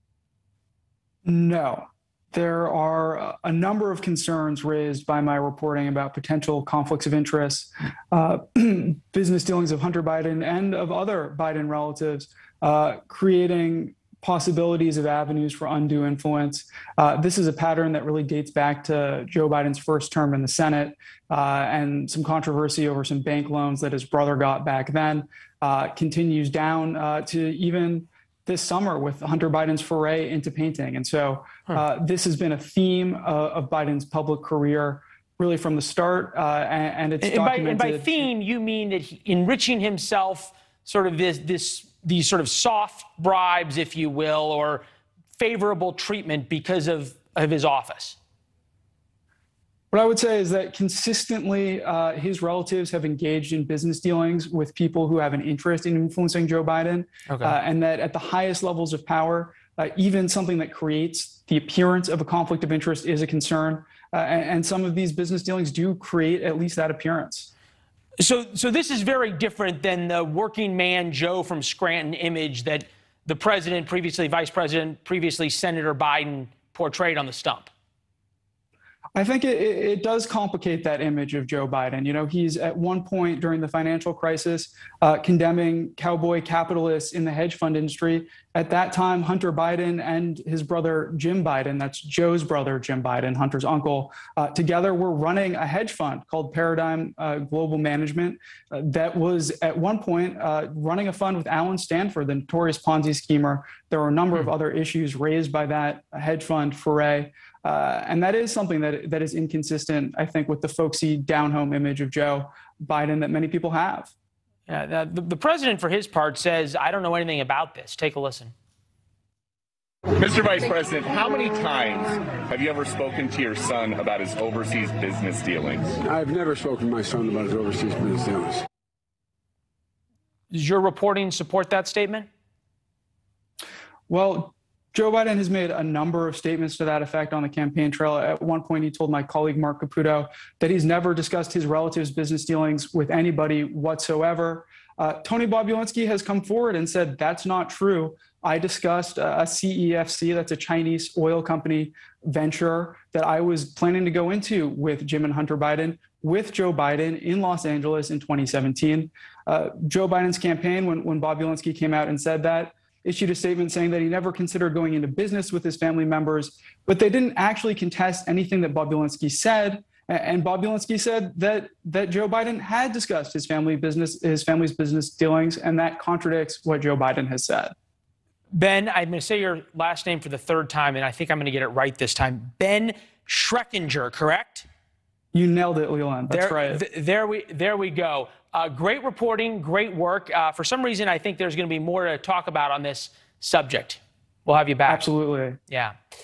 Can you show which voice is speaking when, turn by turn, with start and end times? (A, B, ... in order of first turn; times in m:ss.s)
0:01.2-0:38.2 A
0:37.2-0:44.8 B
0:45.4-0:48.2 B
0:49.9-1:07.5 A
0:57.3-0:57.6 B
1:08.2-1:17.7 B
1:19.1-1:54.1 A
1:54.7-1:58.5 B
2:00.2-2:06.0 C
2:06.0-2:08.6 D
2:10.5-2:12.3 B
2:14.1-2:57.7 A
2:58.5-3:04.7 B
3:05.3-3:06.8 A
3:06.3-3:15.0 B
3:14.9-3:15.6 A
3:15.7-3:15.9 B